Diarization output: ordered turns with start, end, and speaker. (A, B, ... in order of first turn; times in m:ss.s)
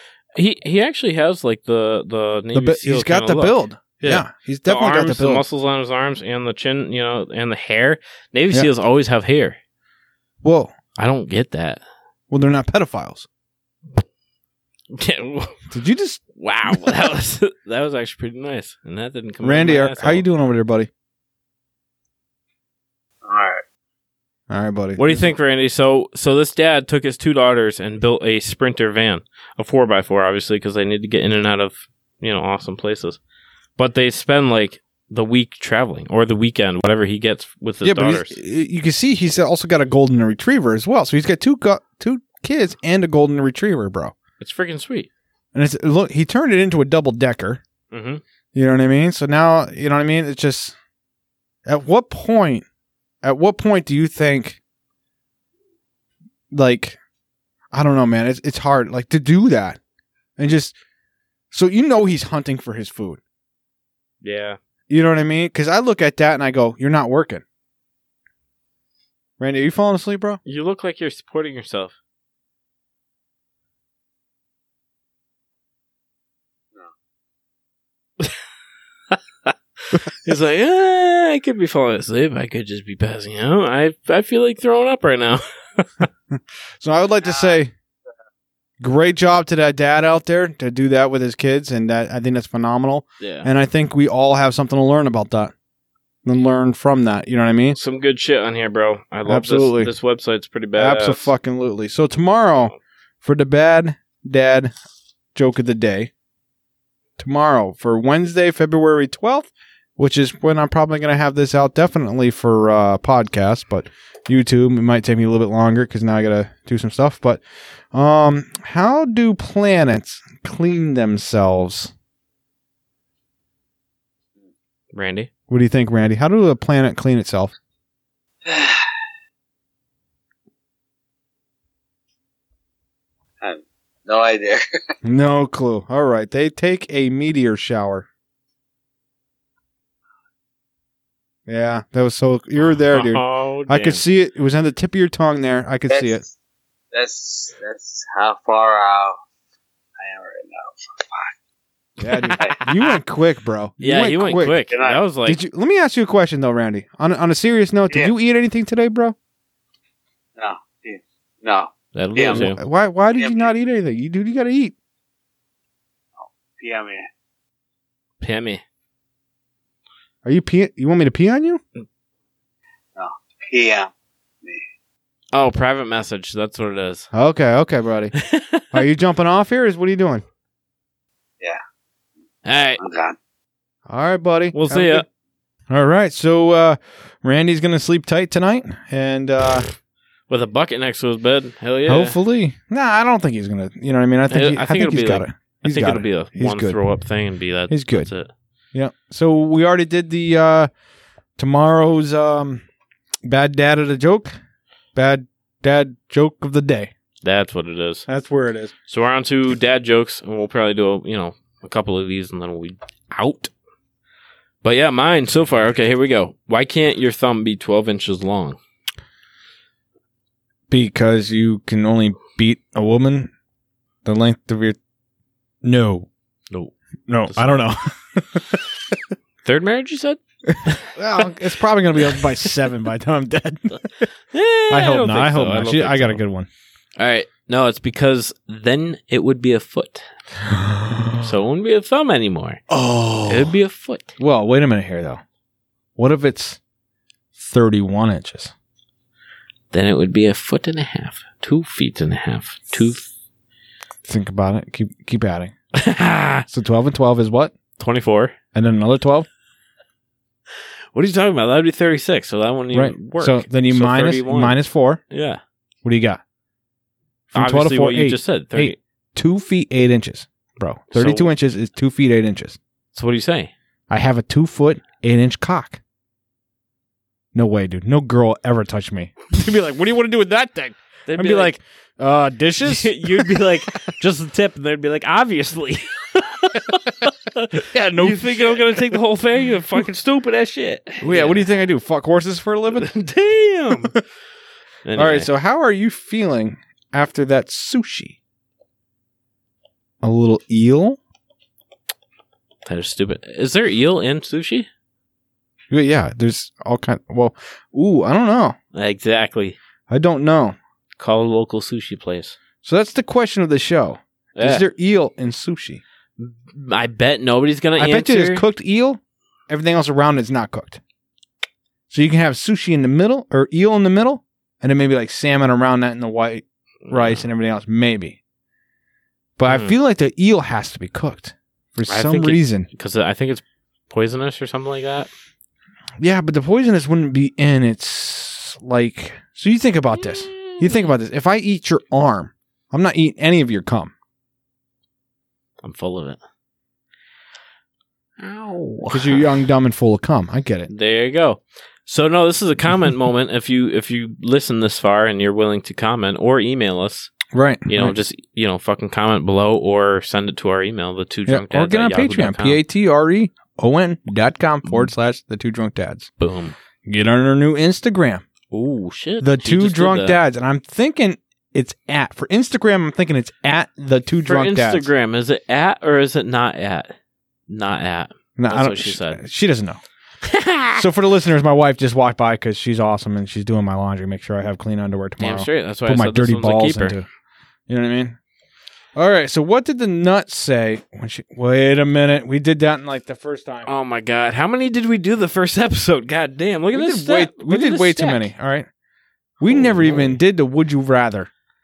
0:00.3-0:09.6 A
0:02.5-0:05.4 B
0:10.4-0:10.7 B
0:11.0-0:11.8 A
0:12.3-0:13.3 B
0:14.9-0:15.6 A
0:15.7-0:16.9 B
0:16.4-0:20.2 A
0:19.4-0:20.9 B
0:23.2-0:23.6 C
0:24.5-0:25.3 B
0:25.0-0:33.2 A
0:33.8-0:38.4 A
0:37.8-0:44.1 B
0:44.4-0:45.1 A
0:45.5-0:47.6 B
0:47.9-0:48.2 A
0:48.5-0:50.7 B
0:51.6-0:52.6 B
0:53.2-0:54.6 B
0:56.5-0:57.0 B
0:57.7-0:59.8 B
1:00.4-1:00.7 B
1:01.5-1:03.2 B
1:04.2-1:04.6 A
1:04.9-1:07.4 B
1:09.4-1:10.4 B
1:10.4-1:12.0 A
1:19.1-1:26.0 A
1:26.3-1:27.7 B
1:27.2-1:27.6 C
1:28.8-1:35.5 B
1:33.2-1:33.5 A
1:36.2-1:37.8 B
1:37.7-1:41.3 A
1:39.2-1:39.9 B
1:40.8-1:44.7 B
1:45.3-1:46.1 B
1:47.2-2:01.9 B
2:04.9-2:05.3 A
2:05.5-2:07.5 B
2:08.4-2:08.9 C
2:13.4-2:14.8 C
2:15.0-2:18.1 B
2:21.5-2:26.2 B
2:22.9-2:24.0 A
2:25.9-2:26.3 C
2:26.9-2:29.2 C
2:30.0-2:31.3 C
2:32.0-2:34.6 B
2:32.1-2:32.8 A
2:33.8-2:35.4 A
2:34.7-2:35.0 C
2:35.2-2:39.1 B
2:40.4-2:42.5 C
2:41.9-2:42.6 A
2:42.3-2:44.7 B
2:43.2-2:43.5 C
2:46.2-2:47.1 C
2:48.2-2:48.6 A
2:50.2-2:51.6 B
2:53.0-2:53.9 C
2:55.3-2:57.1 A
2:57.1-2:58.2 B
2:58.2-2:58.8 A
2:58.7-3:00.2 B
3:02.4-3:02.8 A
3:02.8-3:03.2 C
3:03.9-3:05.0 B
3:04.5-3:05.0 A
3:05.7-3:09.7 B
3:10.3-3:12.2 A
3:11.8-3:16.8 B
3:14.3-3:18.3 A
3:17.7-3:18.1 B
3:18.7-3:20.7 B
3:21.4-3:22.6 B
3:23.2-3:24.4 B
3:24.9-3:26.9 B
3:27.2-3:28.1 A
3:28.1-3:28.7 B
3:28.9-3:33.5 A
3:34.6-3:38.6 A
3:40.7-3:43.3 B
3:44.0-3:44.8 B
3:45.6-3:46.1 B
3:47.1-3:48.6 B
3:47.2-3:47.6 A
3:49.4-3:51.2 A
3:50.5-3:54.0 B
3:52.0-3:52.5 A
3:54.3-3:56.2 A
3:54.7-3:56.5 B
3:57.0-4:00.0 A
4:00.4-4:01.3 B
4:01.2-4:02.6 A
4:02.7-4:03.5 B
4:03.2-4:04.1 A
4:04.2-4:05.2 B
4:06.0-4:06.6 B
4:07.3-4:08.5 B
4:09.7-4:13.1 A
4:14.0-4:15.5 B
4:15.7-4:16.4 A
4:16.5-4:17.5 B
4:17.8-4:18.3 A
4:18.5-4:19.3 B
4:20.9-4:24.6 A
4:22.7-4:25.0 B
4:25.1-4:25.4 A
4:25.8-4:26.2 B
4:27.3-4:32.6 B
4:27.3-4:28.8 A
4:30.9-4:31.3 A
4:32.9-4:33.5 A
4:33.9-4:35.8 B
4:37.3-4:43.9 B
4:41.1-4:41.6 A
4:42.6-4:51.5 A
4:47.6-4:48.8 B
4:51.0-4:52.9 B
4:52.7-4:54.0 A
4:53.7-4:54.0 B
4:54.8-4:55.3 A
4:55.0-4:58.2 B
5:00.0-5:01.0 B
5:02.6-5:04.7 A
5:05.7-5:08.6 B
5:08.7-5:09.6 A
5:09.9-5:10.6 B
5:11.0-5:12.4 A
5:12.6-5:15.8 B
5:14.4-5:14.6 A
5:16.2-5:18.4 A
5:17.8-5:20.8 B
5:21.9-5:28.2 B
5:26.8-5:27.2 A
5:29.4-5:32.7 B
5:29.5-5:29.7 A
5:31.9-5:35.1 A
5:36.0-5:43.9 B
5:40.0-5:40.9 A
5:45.6-5:46.2 A
5:48.2-5:49.3 A
5:48.9-5:50.7 B
5:50.7-6:02.6 A
5:57.3-5:58.0 B
6:01.3-6:06.1 B
6:06.2-6:06.5 A
6:06.8-6:08.2 B
6:08.5-6:10.2 A
6:09.2-6:14.9 B
6:14.2-6:16.9 A
6:17.5-6:19.2 A
6:18.4-6:19.8 B
6:20.2-6:20.8 A
6:20.8-6:27.0 B
6:25.2-6:27.0 A
6:27.7-6:28.2 B
6:28.9-6:33.7 B
6:33.6-6:38.3 A
6:36.7-6:38.7 B
6:39.4-6:41.3 B
6:39.4-6:40.2 A